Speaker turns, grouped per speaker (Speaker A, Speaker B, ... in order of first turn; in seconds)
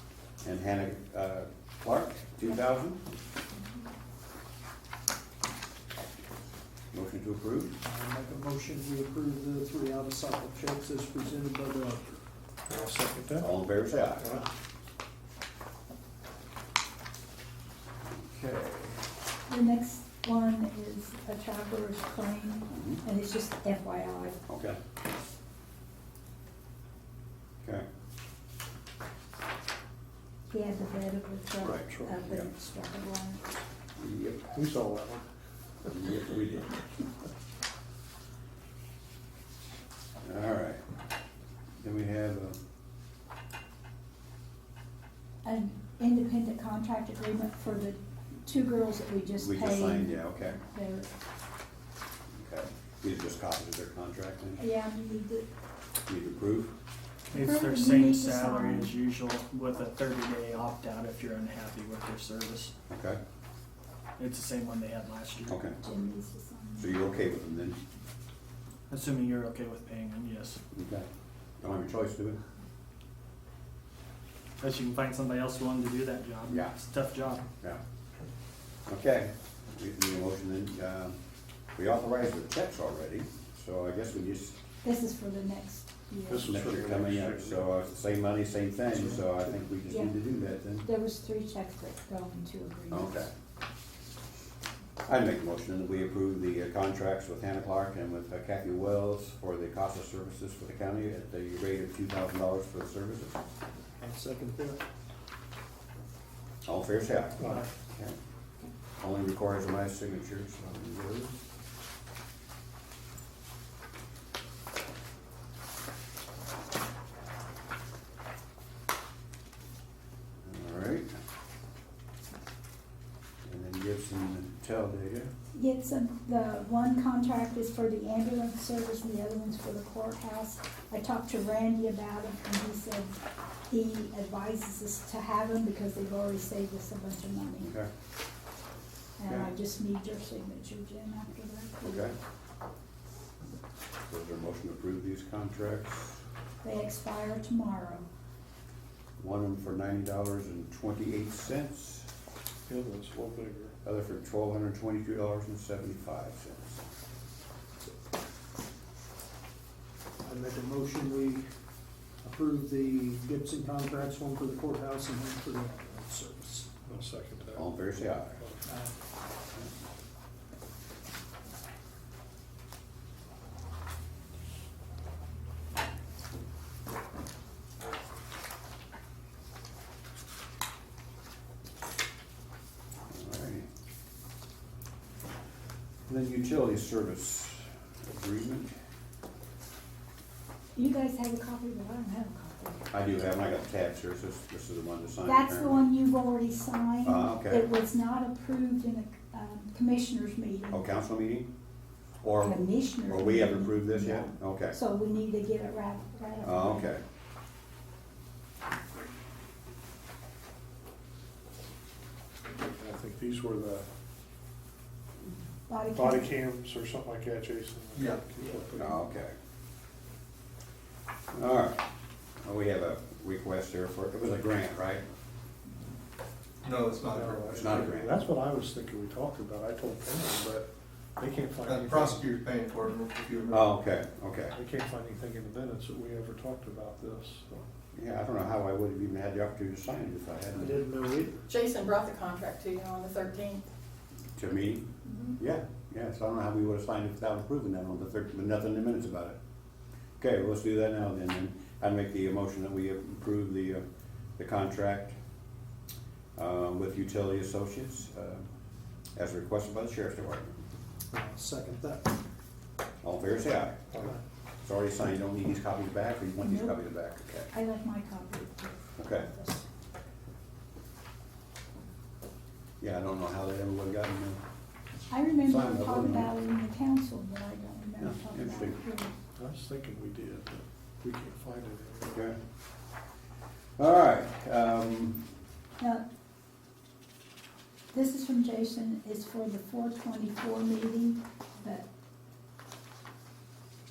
Speaker A: 0.4-3.0, 6.9-7.7, 13.4-14.4, 18.1-19.0, 22.7-23.0, 24.5-24.8, 31.6-32.5, 34.0-34.5, 35.9-36.8, 40.2-40.8, 41.8-42.6, 49.4-50.6, 52.4-54.6, 56.1-56.7, 62.9-63.2, 65.5-65.8, 66.8-67.8, 70.7-71.0, 71.6-72.4, 76.5-76.7, 78.9-81.2, 81.8-84.5, 86.4-90.9, 92.9-93.3, 95.1-103.4, 106.6-108.2, 109.0-111.2, 120.4-121.1, 123.5-125.3, 137.6-137.9, 139.3-139.5, 141.8-142.1, 144.1-146.2, 149.2-152.1, 153.8-156.8, 167.5-168.4, 183.1-183.7, 186.1-188.7, 192.9-195.8, 197.0-197.7, 200.7-201.5, 202.2-204.8, 206.4-207.0, 218.7-219.3, 221.3-221.8, 222.4-225.0, 227.6-228.1, 233.5-234.6, 237.9-240.8, 244.4-244.9, 245.4-249.4, 250.2-253.8, 254.4-255.2, 256.4-258.5, 259.1-260.6, 263.0-264.1, 264.6-267.5, 269.0-269.3, 272.8-274.4, 275.4-276.3, 278.0-278.8, 283.8-285.3
Speaker B: 7.8-11.8, 104.0-104.7, 160.2-161.2, 162.2-166.6, 261.1-262.0
Speaker C: 12.7-13.5, 31.6-32.2, 34.5-35.2, 86.3-87.7, 88.9-89.5, 107.4-107.7, 152.7-153.7, 166.8-168.7, 212.7-213.9, 215.9-219.0, 227.1-232.3, 234.5-237.7, 279.4-282.3
Speaker D: 19.5-24.4, 30.5-33.4, 45.4-51.1, 54.6-55.5, 57.3-58.9, 65.8-67.0, 84.8-86.5, 89.9-90.1, 90.8-93.3, 125.5-133.2, 133.7-137.7, 139.2-142.1, 146.6-148.1, 190.7-192.8, 195.2-200.8, 202.4-206.9, 215.7-216.3, 266.4-266.8, 267.5-269.6, 275.1-279.1, 287.9-291.9
Speaker E: 57.3-62.7, 64.2-65.6, 68.9-70.6, 74.6-77.4
Speaker F: 217.9-218.6, 226.6-227.8, 231.6-233.6
Speaker G: 241.5-243.7